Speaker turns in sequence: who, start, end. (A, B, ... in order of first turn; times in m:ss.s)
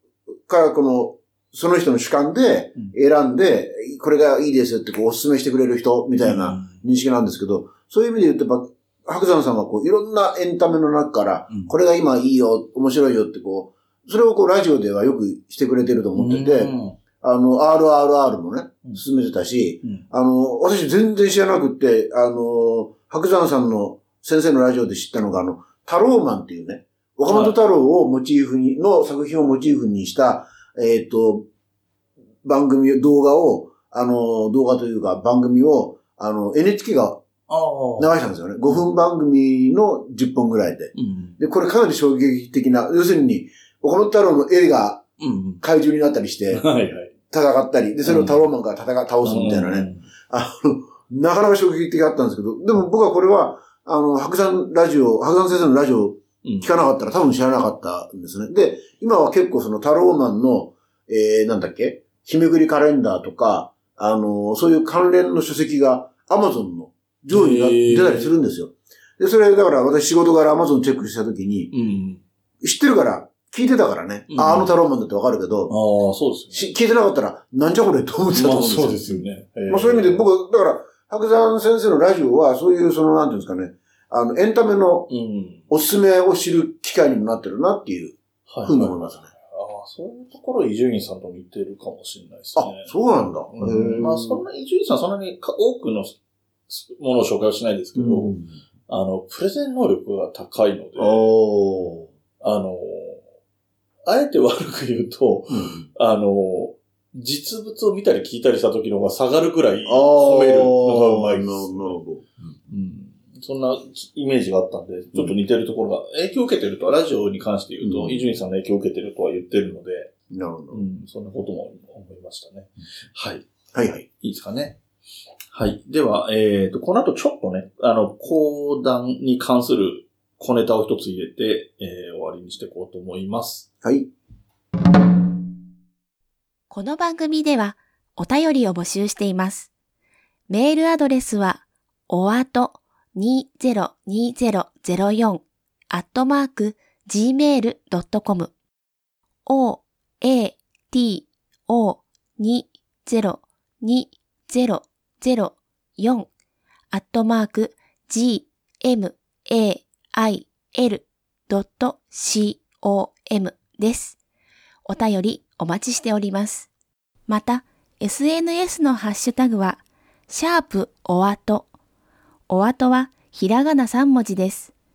0:00.5-0:31.5 A
0:06.2-0:06.8 B
0:11.5-0:11.7 B
0:16.2-0:17.0 B
0:27.3-0:27.6 B
0:32.4-0:37.2 A
0:37.5-0:38.1 B
0:38.0-0:45.1 A
0:41.0-0:41.4 B
0:45.2-0:45.6 B
0:45.6-0:46.7 A
0:46.5-0:47.1 B
0:47.3-1:11.7 A
0:48.0-0:48.4 B
0:49.2-0:50.1 B
0:56.4-0:56.7 B
1:07.3-1:08.3 B
1:11.7-1:12.2 B
1:12.6-1:15.7 A
1:14.3-1:14.7 B
1:15.7-1:16.6 B
1:16.5-1:25.1 A
1:18.3-1:20.2 B
1:25.1-1:25.6 B
1:25.7-1:29.3 A
1:28.5-1:32.9 B
1:32.6-1:34.4 A
1:33.5-1:36.2 B
1:36.7-1:38.4 B
1:38.0-1:38.6 A
1:38.9-1:41.3 B
1:41.0-1:42.1 A
1:42.4-1:43.2 B
1:44.1-1:52.0 B
1:45.5-1:45.9 A
1:49.9-1:52.6 A
1:52.7-2:00.1 B
1:57.8-1:58.3 A
2:00.3-2:00.8 A
2:00.7-2:03.5 B
2:03.7-2:04.1 A
2:04.2-2:04.8 B
2:05.5-2:13.7 B
2:13.8-2:14.1 A
2:16.7-2:19.7 C
2:20.5-2:28.5 C
2:29.5-2:36.3 C
2:36.9-2:44.2 C
2:44.8-2:46.7 C
2:47.3-2:51.7 C
2:52.5-2:54.7 C